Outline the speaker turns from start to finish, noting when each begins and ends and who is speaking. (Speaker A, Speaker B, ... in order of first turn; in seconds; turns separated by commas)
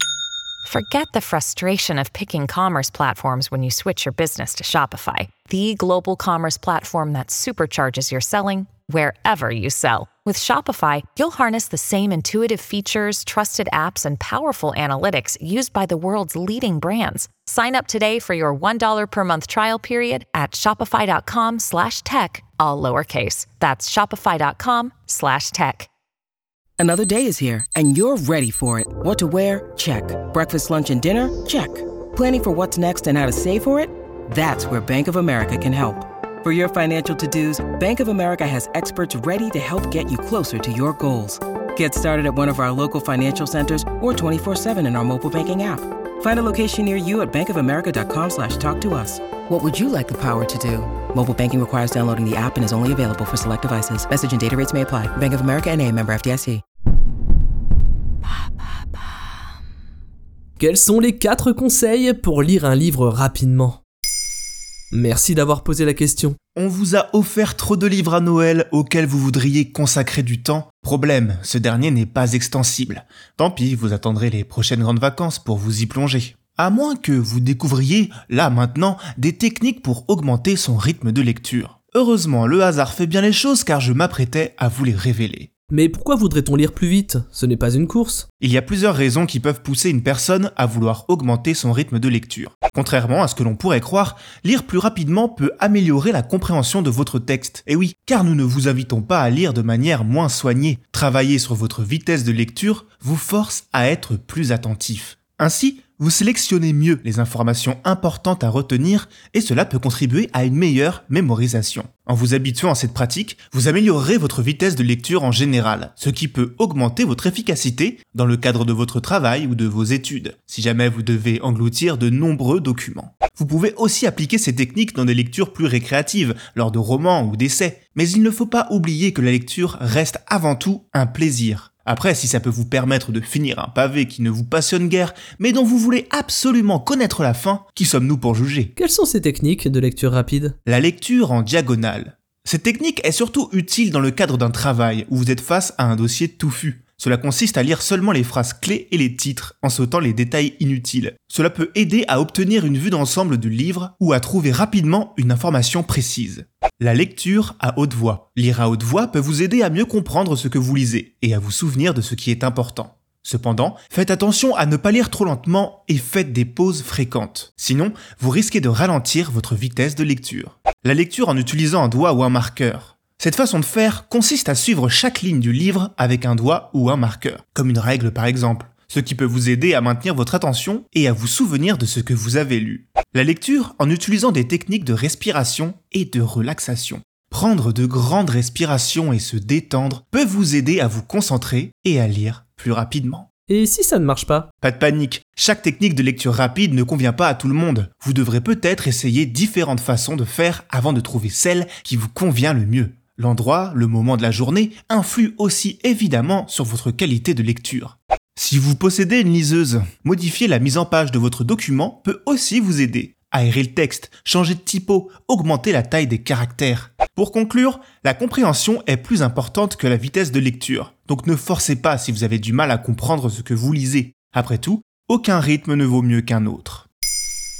Speaker A: 0.6-25.9, Speaker B: 26.8-56.6, Speaker C: 60.6-63.8, Speaker C: 64.9-66.4, Speaker D: 66.5-85.5, Speaker C: 85.7-88.3, Speaker D: 88.4-138.7, Speaker C: 138.8-140.5, Speaker D: 140.6-193.3, Speaker C: 193.5-194.5, Speaker D: 194.6-226.9